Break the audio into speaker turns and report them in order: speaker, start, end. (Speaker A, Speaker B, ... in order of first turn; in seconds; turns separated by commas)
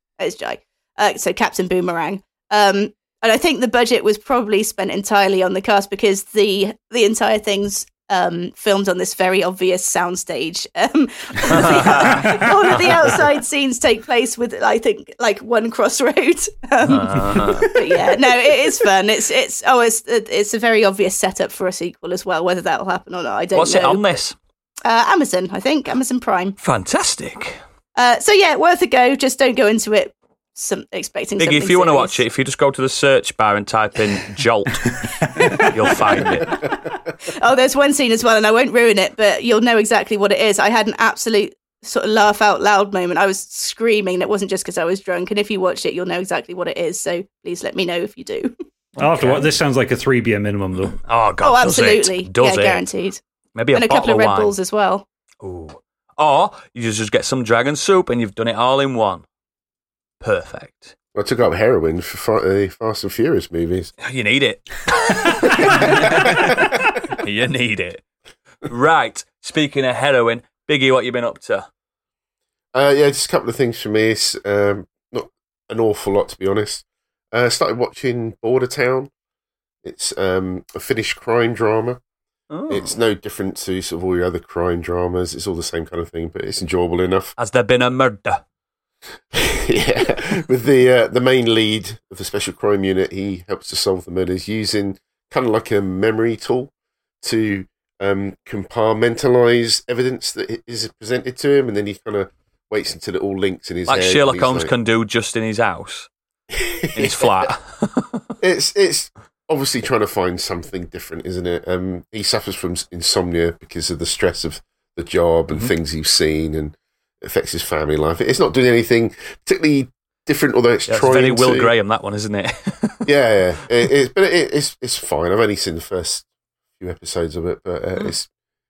Speaker A: 0.2-24.1, Speaker B: 11.5-12.2, Speaker C: 12.0-12.5, Speaker B: 16.8-17.7, Speaker C: 17.3-18.1, Speaker B: 23.5-24.4, Speaker A: 24.9-26.6, Speaker B: 26.6-27.6, Speaker A: 27.9-32.2, Speaker B: 31.4-36.6, Speaker C: 35.2-35.7, Speaker A: 36.2-48.5, Speaker B: 49.0-49.5, Speaker C: 49.0-51.0, Speaker B: 51.0-52.8, Speaker A: 51.4-53.2, Speaker B: 53.5-54.5, Speaker A: 53.7-55.0, Speaker B: 55.4-59.2, Speaker B: 60.2-60.9, Speaker D: 61.1-63.9, Speaker B: 64.0-68.0, Speaker D: 65.9-66.6, Speaker B: 68.6-71.7, Speaker D: 72.7-79.1, Speaker D: 79.8-82.0, Speaker B: 82.5-83.0, Speaker D: 82.7-87.3, Speaker B: 87.4-88.4, Speaker D: 89.3-96.7, Speaker D: 97.2-104.7, Speaker B: 103.9-106.1, Speaker D: 106.5-107.5, Speaker B: 106.9-108.2, Speaker D: 108.4-121.7, Speaker B: 120.9-123.1, Speaker D: 123.0-126.3, Speaker D: 126.8-128.3